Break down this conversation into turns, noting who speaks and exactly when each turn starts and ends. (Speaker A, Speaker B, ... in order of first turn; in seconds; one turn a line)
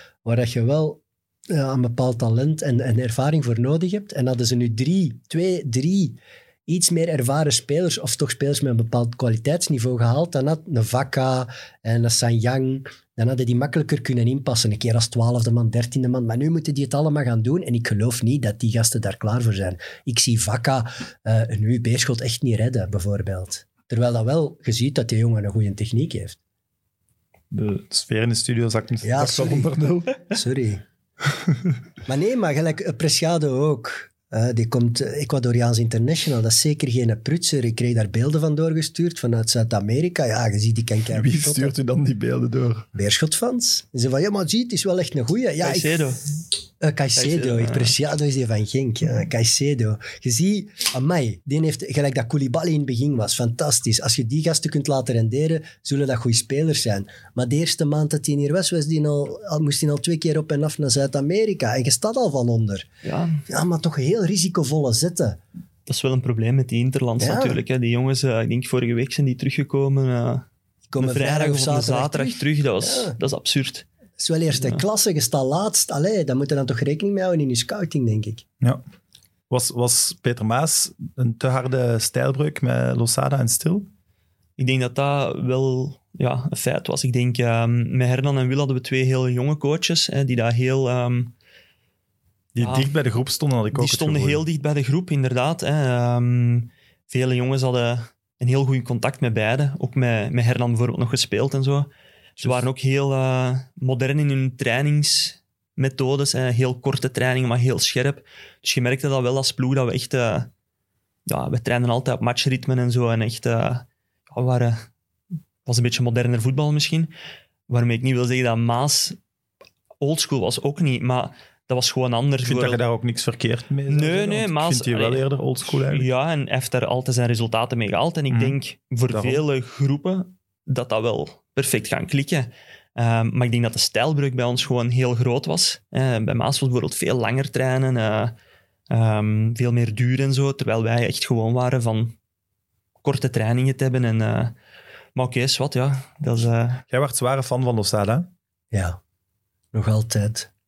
Speaker A: 0.2-26.4
Speaker B: 27.5-30.3
Speaker A: 29.0-30.8
Speaker A: 32.1-41.8
Speaker B: 41.1-42.9
Speaker A: 42.9-46.0
Speaker C: 45.6-46.2
Speaker A: 46.8-62.9
Speaker C: 47.2-47.9
Speaker C: 63.0-63.4
Speaker A: 63.5-65.4
Speaker C: 65.9-70.5
Speaker A: 67.2-67.6
Speaker A: 70.9-73.2
Speaker C: 71.0-73.9
Speaker A: 74.2-78.4
Speaker C: 74.6-74.8
Speaker B: 79.5-83.9
Speaker C: 84.6-91.3
Speaker B: 92.5-94.4
Speaker C: 92.6-92.9
Speaker C: 93.7-101.9
Speaker B: 102.4-102.7
Speaker C: 102.4-110.5
Speaker C: 111.3-114.9
Speaker C: 115.7-117.1
Speaker C: 117.7-119.2
Speaker C: 120.0-122.8
Speaker B: 122.4-126.1
Speaker C: 123.9-138.3
Speaker B: 128.3-128.6
Speaker B: 129.1-129.4
Speaker C: 138.9-142.2
Speaker C: 143.0-144.5
Speaker C: 145.2-146.8
Speaker B: 146.9-148.3
Speaker A: 148.7-149.0
Speaker A: 149.7-150.5